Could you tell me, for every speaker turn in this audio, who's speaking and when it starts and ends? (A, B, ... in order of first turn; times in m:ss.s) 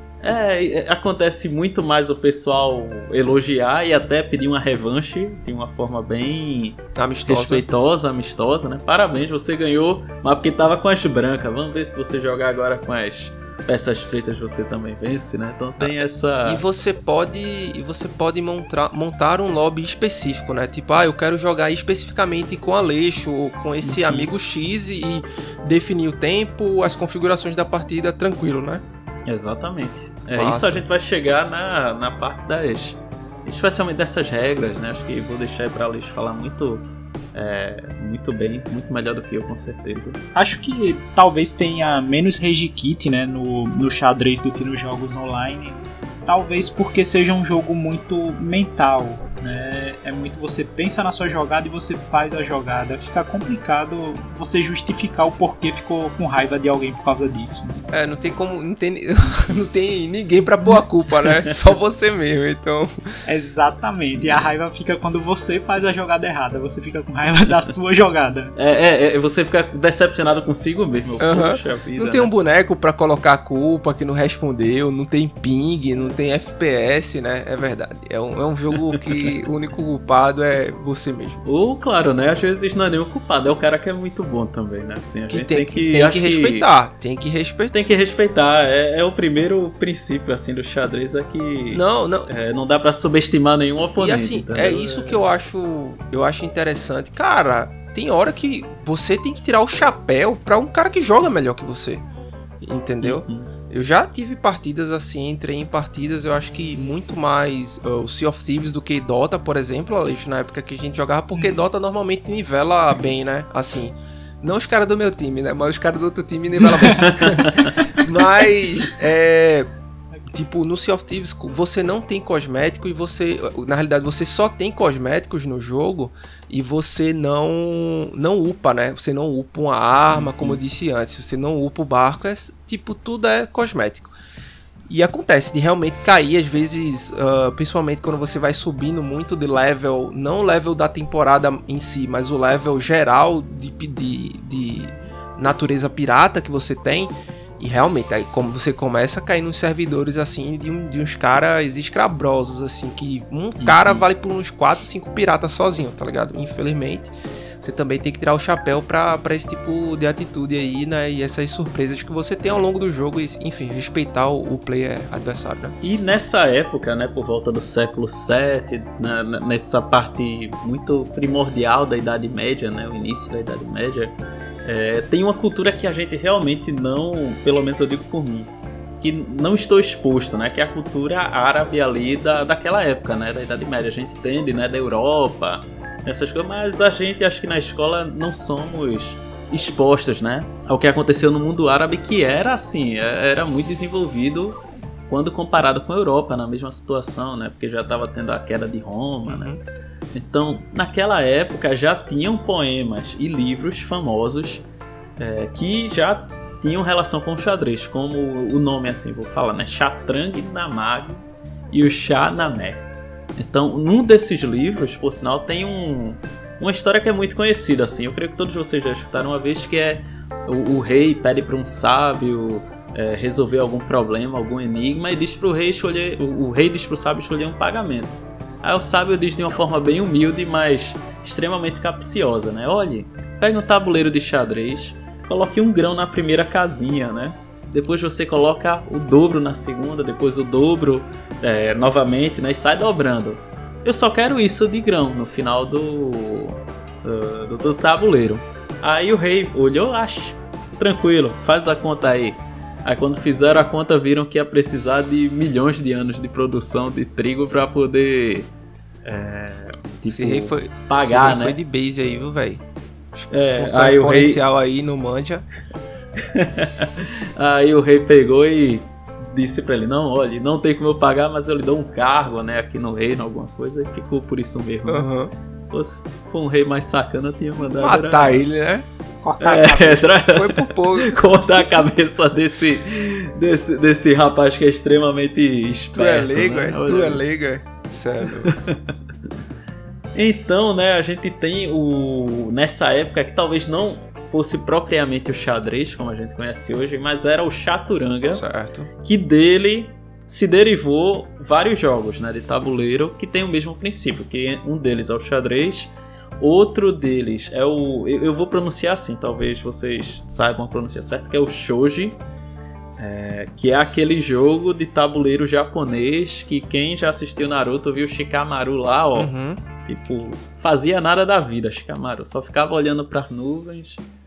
0:00.2-0:16.6 A
0:06.9-0:07.6 B
0:15.8-0:28.8 B
0:23.8-0:24.3 A
0:29.3-0:40.2 A
0:30.3-0:30.8 B
0:40.3-0:57.9 C
0:57.9-1:03.0 B
1:03.2-1:08.5 C
1:08.6-1:12.3 A
1:11.2-1:21.4 B
1:21.4-1:26.7 A
1:25.3-1:27.9 B
1:27.7-1:35.3 A
1:31.7-1:32.3 B
1:34.0-1:42.0 B
1:42.6-1:59.7 B
1:43.0-1:43.5 A
1:57.0-1:57.8 A
2:00.3-2:14.1 B
2:10.1-2:10.6 A
2:14.9-2:45.8 B
2:33.6-2:34.0 A
2:45.8-2:54.1 A
2:54.6-3:19.5 A
3:19.3-3:19.6 B
3:20.1-3:24.6 A
3:25.2-4:18.5 A
4:19.0-4:21.6 A
4:20.1-4:22.6 B
4:23.1-4:25.4 B
4:23.3-4:24.4 A
4:26.2-4:35.1 A
4:34.8-4:35.3 B
4:35.7-4:38.4 A
4:37.6-4:38.8 B
4:39.2-4:40.1 C
4:39.4-4:47.2 A
4:40.1-4:41.1 B
4:45.9-4:48.6 B
4:48.4-4:48.9 A
4:50.1-4:58.4 A
4:58.3-4:58.9 B
4:59.0-5:12.2 A
5:13.0-5:19.3 A
5:19.1-5:19.6 B
5:19.8-5:24.0 A